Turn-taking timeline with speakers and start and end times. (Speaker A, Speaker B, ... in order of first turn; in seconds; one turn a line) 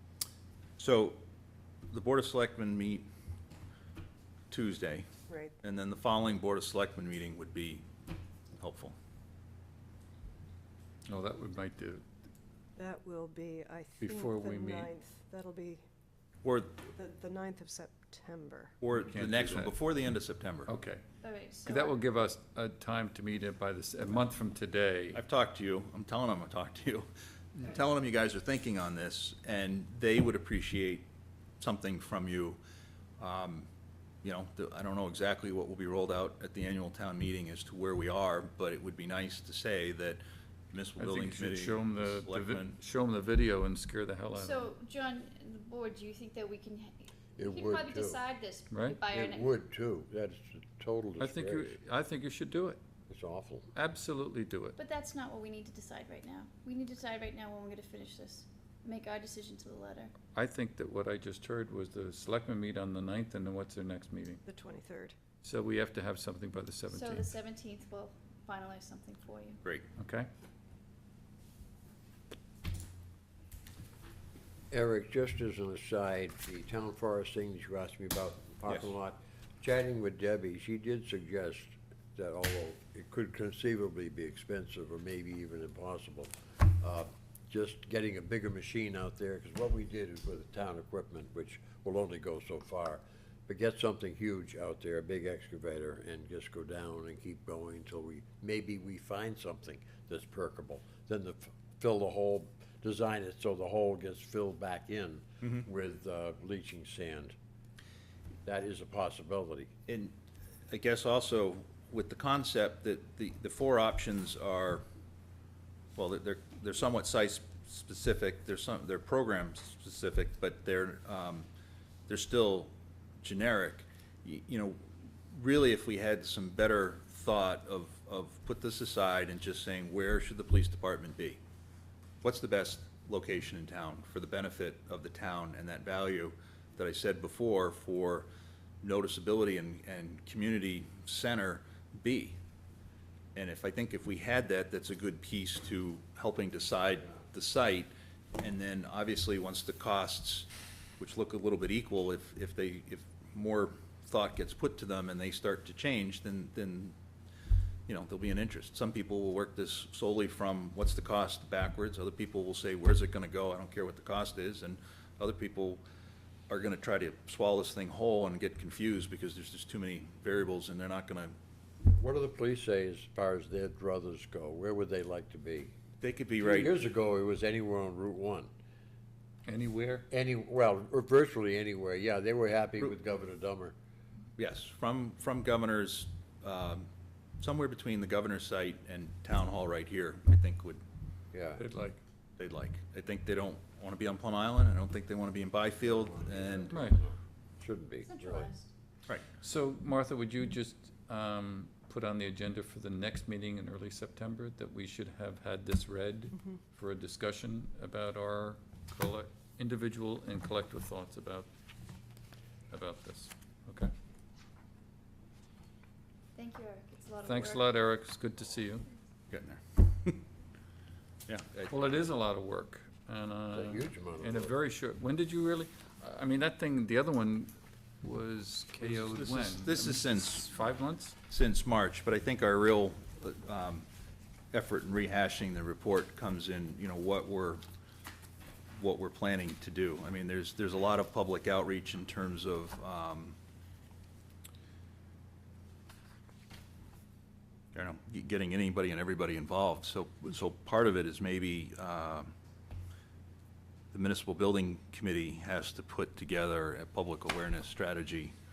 Speaker A: 0.8-1.2
Speaker A: 1.9-3.0
Speaker A: 4.5-5.0
Speaker B: 5.3-5.6
Speaker A: 5.6-7.8
Speaker A: 8.5-8.9
Speaker C: 11.1-12.0
Speaker B: 12.8-15.8
Speaker C: 14.0-14.9
Speaker A: 16.4-16.9
Speaker B: 16.9-18.8
Speaker A: 18.8-20.7
Speaker C: 18.9-19.7
Speaker C: 20.6-21.0
Speaker D: 21.2-21.9
Speaker C: 21.7-25.2
Speaker A: 25.1-31.1
Speaker A: 31.6-32.6
Speaker A: 33.2-33.7
Speaker A: 34.2-42.8
Speaker C: 41.0-44.7
Speaker D: 44.3-49.5
Speaker E: 47.4-48.2
Speaker C: 48.7-49.0
Speaker E: 49.0-51.8
Speaker C: 51.2-52.8
Speaker E: 53.1-53.7
Speaker C: 53.7-54.8
Speaker D: 54.8-60.1
Speaker C: 60.3-64.4
Speaker B: 64.5-65.2
Speaker C: 65.4-67.3
Speaker D: 66.9-69.6
Speaker C: 70.0-70.3
Speaker E: 74.7-107.3
Speaker E: 108.4-109.7
Speaker A: 109.9-110.1
Speaker A: 110.7-114.8
Speaker A: 116.0-121.5
Speaker A: 122.1-131.4
Speaker A: 132.2-138.3
Speaker A: 138.8-142.4
Speaker A: 143.3-156.9
Speaker A: 157.9-165.8
Speaker A: 166.5-171.3
Speaker E: 171.8-175.7
Speaker A: 176.0-176.8
Speaker E: 176.4-178.5
Speaker C: 179.4-180.1
Speaker E: 180.1-183.7
Speaker A: 184.4-186.9
Speaker A: 187.4-190.8
Speaker E: 191.3-191.6
Speaker C: 191.6-192.0
Speaker A: 192.4-196.8
Speaker E: 195.8-198.5
Speaker C: 196.7-197.0
Speaker D: 198.0-198.7
Speaker C: 199.4-211.5
Speaker C: 212.7-213.9
Speaker D: 216.3-217.7
Speaker C: 217.2-218.9
Speaker A: 219.3-220.2
Speaker A: 221.3-221.8
Speaker C: 221.7-231.2
Speaker E: 223.5-224.5
Speaker A: 228.8-230.5
Speaker A: 231.3-233.8
Speaker A: 234.5-237.6
Speaker A: 238.8-243.4
Speaker A: 247.7-252.3
Speaker A: 253.9-258.3